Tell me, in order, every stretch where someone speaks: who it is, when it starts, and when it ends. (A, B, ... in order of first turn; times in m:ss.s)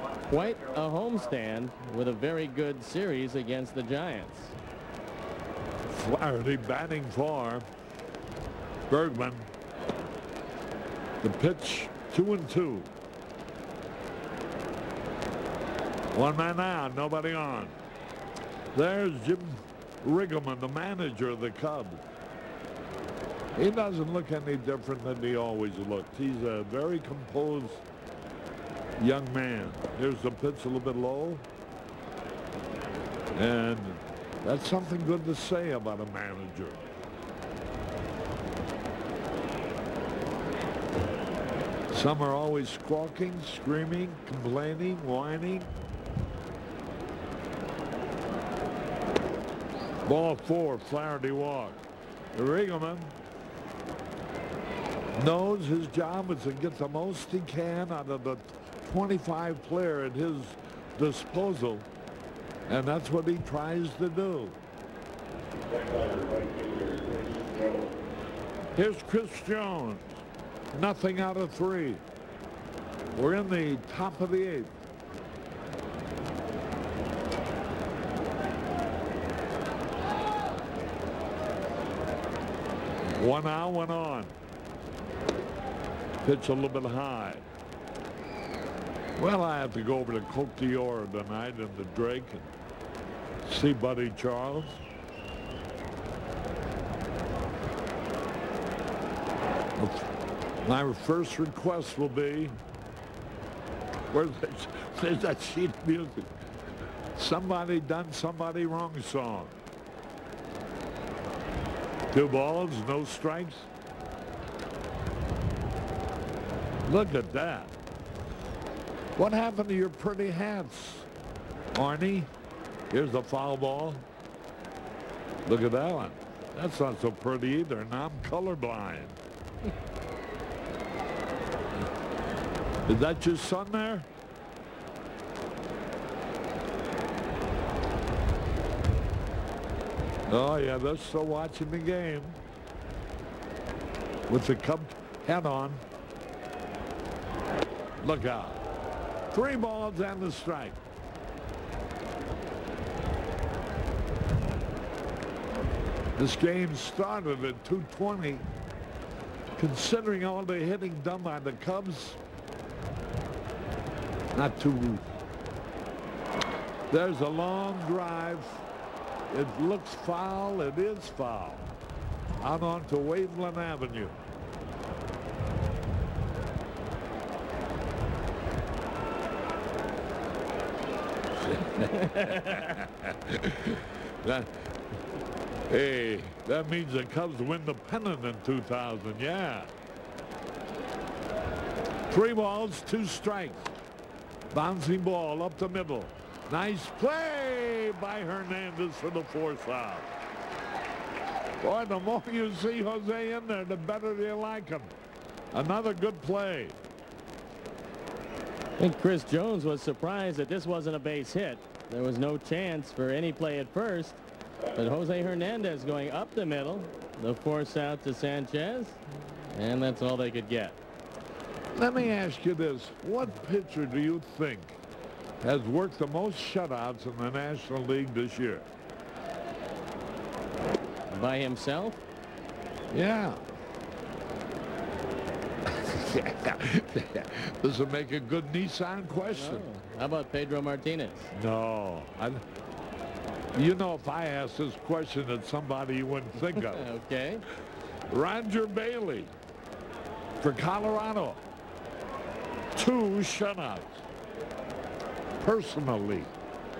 0:00.2-0:04.5 A
0:05.9-0:07.7 B
0:08.9-0:09.5 B
0:11.2-0:12.9 B
0:16.1-0:17.8 B
0:18.7-0:22.0 B
0:23.6-0:27.8 B
0:29.0-0:31.4 B
0:33.3-0:36.8 B
0:41.9-0:45.7 B
0:50.0-0:51.8 B
0:52.4-0:53.1 B
0:55.2-1:01.9 B
1:02.7-1:04.6 B
1:08.8-1:10.2 B
1:10.7-1:12.0 B
1:13.1-1:14.7 B
1:23.2-1:24.3 B
1:26.2-1:27.4 B
1:29.2-1:32.5 B
1:33.5-1:34.8 B
1:39.8-1:40.1 B
1:40.6-1:42.6 B
1:44.1-1:46.3 B
1:47.2-1:49.6 B
1:52.1-1:53.7 B
1:56.9-1:57.7 B
1:59.2-2:01.1 B
2:01.7-2:02.3 B
2:02.9-2:04.0 B
2:05.5-2:09.2 B
2:12.9-2:14.1 B
2:20.3-2:22.4 B
2:24.3-2:25.8 B
2:28.0-2:28.6 B
2:29.3-2:30.8 B
2:36.2-2:38.5 B
2:39.6-2:42.2 B
2:44.3-2:45.0 B
2:46.9-2:48.6 B
2:49.3-2:51.7 B
2:52.4-2:54.2 B
3:01.5-3:04.7 B
3:02.2-3:02.5 A
3:05.7-3:09.7 B
3:12.1-3:13.7 B
3:14.5-3:20.1 B
3:21.6-3:24.9 B
3:25.5-3:26.8 B
3:28.8-3:34.2 A
3:34.8-3:39.0 A
3:39.5-3:40.8 A
3:41.7-3:44.8 B
3:45.4-3:48.6 B
3:51.1-3:52.0 A
3:52.9-3:53.4 B
3:55.8-3:59.7 B
3:59.3-4:01.3 A
4:01.3-4:02.4 B
4:03.6-4:06.8 B
4:06.6-4:07.4 A
4:08.1-4:09.3 B
4:10.4-4:11.4 B
4:12.8-4:14.0 B
4:15.4-4:16.3 B